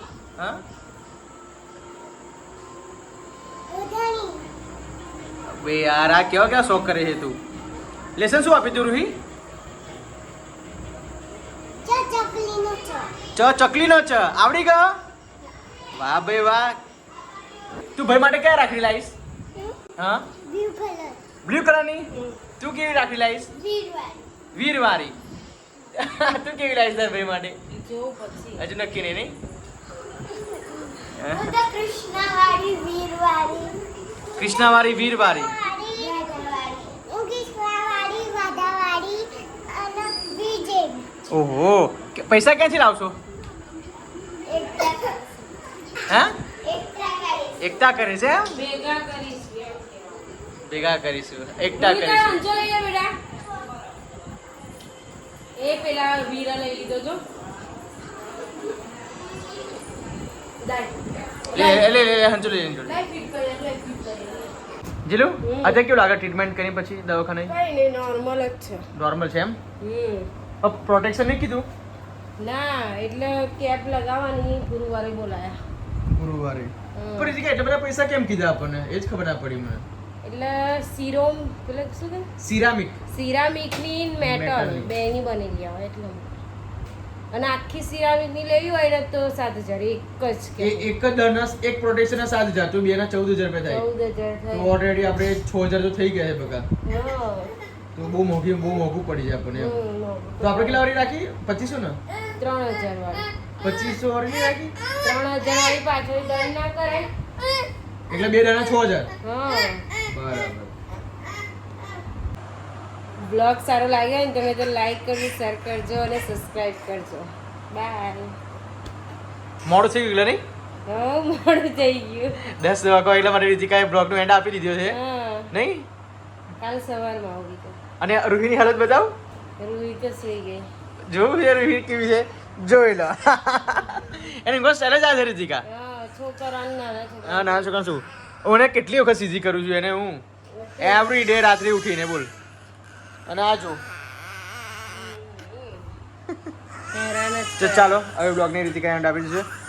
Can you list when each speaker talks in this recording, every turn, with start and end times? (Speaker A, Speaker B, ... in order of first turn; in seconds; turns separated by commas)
Speaker A: 3.7-4.5, Speaker B: 5.5-7.4, Speaker B: 8.2-9.2, Speaker A: 11.8-13.1, Speaker B: 13.3-14.9, Speaker B: 15.9-16.8, Speaker B: 17.9-19.2, Speaker A: 19.5-19.8, Speaker B: 20.0-20.3, Speaker A: 20.4-21.2, Speaker B: 21.4-22.1, Speaker B: 22.6-23.5, Speaker A: 23.5-24.3, Speaker B: 24.5-25.1, Speaker B: 25.9-27.6, Speaker C: 27.7-28.8, Speaker B: 28.6-29.4, Speaker A: 30.3-33.8, Speaker B: 31.1-31.6, Speaker B: 34.4-35.5, Speaker A: 34.4-41.1, Speaker B: 41.3-43.1, Speaker A: 44.5-45.2, Speaker B: 46.1-46.4, Speaker A: 46.6-47.6, Speaker B: 47.6-48.6, Speaker C: 48.5-50.2, Speaker B: 50.7-52.4, Speaker C: 51.7-53.1, Speaker C: 55.6-57.2, Speaker C: 60.6-61.9, Speaker B: 61.5-63.0, Speaker C: 62.9-64.6, Speaker B: 65.0-67.5, Speaker C: 65.4-65.8, Speaker C: 67.5-68.8, Speaker B: 69.0-69.6, Speaker C: 69.8-70.3, Speaker B: 70.6-71.7, Speaker C: 72.4-75.6, Speaker B: 76.1-79.8, Speaker C: 77.0-77.3, Speaker C: 80.2-82.3, Speaker B: 82.4-83.0, Speaker C: 83.1-86.4, Speaker B: 84.2-84.9, Speaker C: 87.3-90.9, Speaker B: 90.6-93.8, Speaker C: 93.7-94.9, Speaker B: 94.5-96.7, Speaker C: 96.8-97.5, Speaker B: 98.0-99.8, Speaker C: 99.5-100.9, Speaker B: 100.4-102.0, Speaker C: 102.3-103.3, Speaker B: 103.6-104.8, Speaker C: 105.0-107.1, Speaker B: 108.1-109.1, Speaker C: 109.2-109.8, Speaker B: 110.0-110.7, Speaker C: 113.2-118.3, Speaker B: 119.6-120.4, Speaker C: 120.8-122.4, Speaker B: 122.5-125.0, Speaker C: 124.9-125.5, Speaker B: 125.5-125.8, Speaker C: 126.6-127.8, Speaker B: 128.0-129.1, Speaker C: 129.6-130.7, Speaker B: 131.1-135.6, Speaker C: 135.6-137.8, Speaker B: 137.2-140.2, Speaker C: 140.5-141.1, Speaker B: 140.8-142.3, Speaker B: 143.3-143.8, Speaker C: 144.9-145.9, Speaker C: 146.9-148.0, Speaker B: 147.6-149.4